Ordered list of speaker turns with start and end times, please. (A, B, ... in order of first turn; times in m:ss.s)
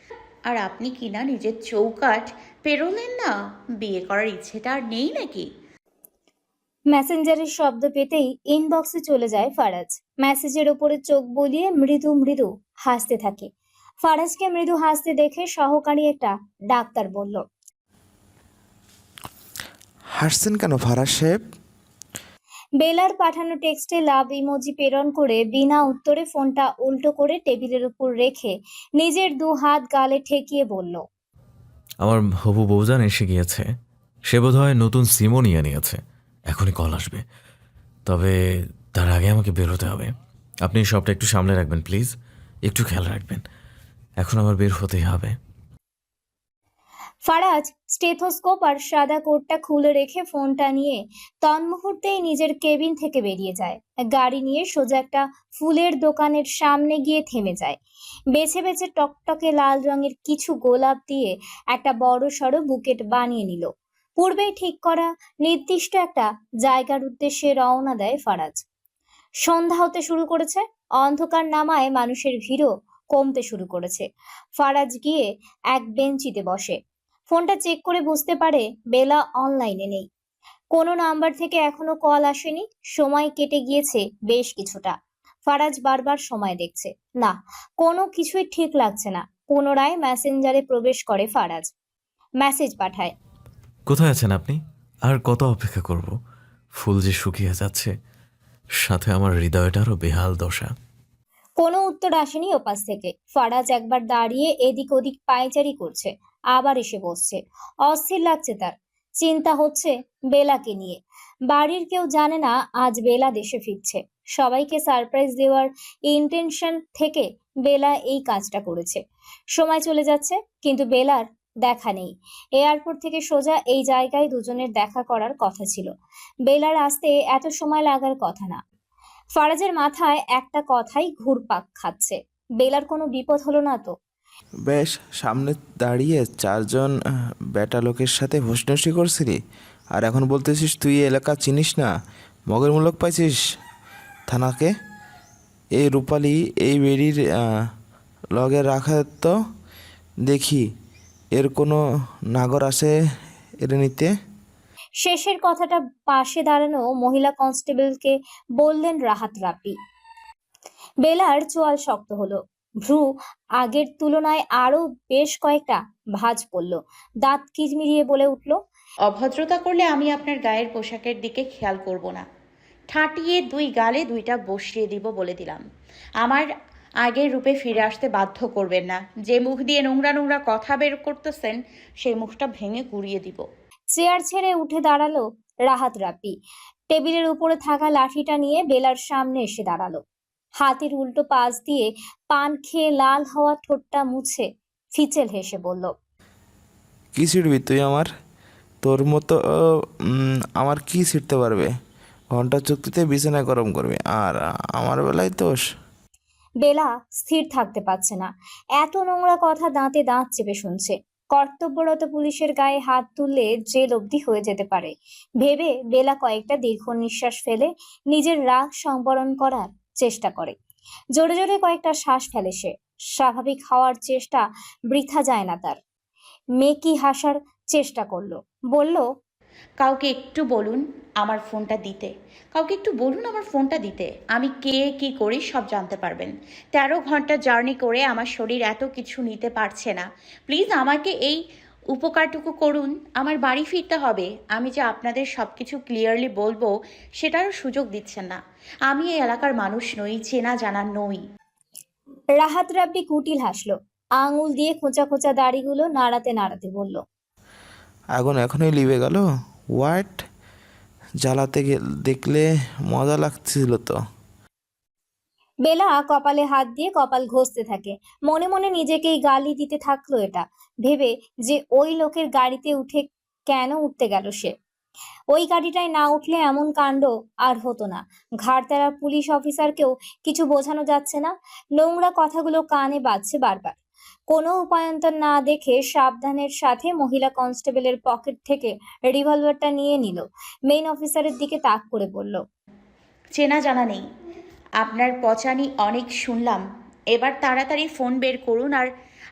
0:00.5-0:03.3 A
0:03.8-0:05.5 A
0:06.9-0:13.5 B
0:14.0-0:17.4 B
0:20.2-0:21.4 C
0:22.8-0:31.0 B
0:32.0-0:33.7 D
0:34.3-0:36.0 D
0:36.5-0:37.2 D
0:38.1-0:38.3 D
0:39.0-0:40.1 D
0:40.6-0:42.1 D
0:42.7-0:43.4 D
0:44.2-0:45.3 D
0:47.2-0:57.8 B
0:58.3-1:08.6 B
1:09.4-1:14.1 B
1:14.6-1:16.8 B
1:17.3-1:20.1 B
1:20.7-1:24.9 B
1:25.5-1:31.7 B
1:32.4-1:33.1 B
1:33.9-1:36.1 D
1:36.8-1:37.9 D
1:38.8-1:40.7 D
1:41.6-1:59.0 B
1:59.6-2:05.9 B
2:06.4-2:08.6 B
2:09.4-2:13.9 B
2:14.7-2:16.9 C
2:17.6-2:19.4 C
2:19.9-2:21.9 C
2:22.5-2:23.4 C
2:24.3-2:24.7 C
2:25.8-2:27.2 C
2:28.4-2:29.3 C
2:30.3-2:30.6 C
2:31.4-2:31.8 C
2:32.3-2:32.9 C
2:33.6-2:34.1 C
2:35.0-2:39.8 B
2:41.0-2:48.6 B
2:49.1-2:52.2 A
2:52.9-2:55.6 A
2:56.2-2:56.5 A
2:57.0-3:03.4 A
3:03.9-3:06.3 B
3:06.9-3:10.0 B
3:10.6-3:15.9 B
3:17.2-3:18.1 C
3:18.8-3:19.4 C
3:20.2-3:21.7 C
3:22.3-3:25.6 C
3:26.6-3:40.5 B
3:41.2-3:45.8 B
3:46.6-3:49.0 B
3:49.8-4:01.4 A
4:01.9-4:08.4 A
4:08.9-4:11.2 A
4:12.4-4:17.0 B
4:18.2-4:19.2 C
4:19.8-4:20.2 C
4:21.2-4:24.0 C
4:25.6-4:34.5 B
4:35.3-4:43.8 B
4:44.3-4:52.4 B
4:53.3-4:54.0 A
4:54.8-4:58.9 A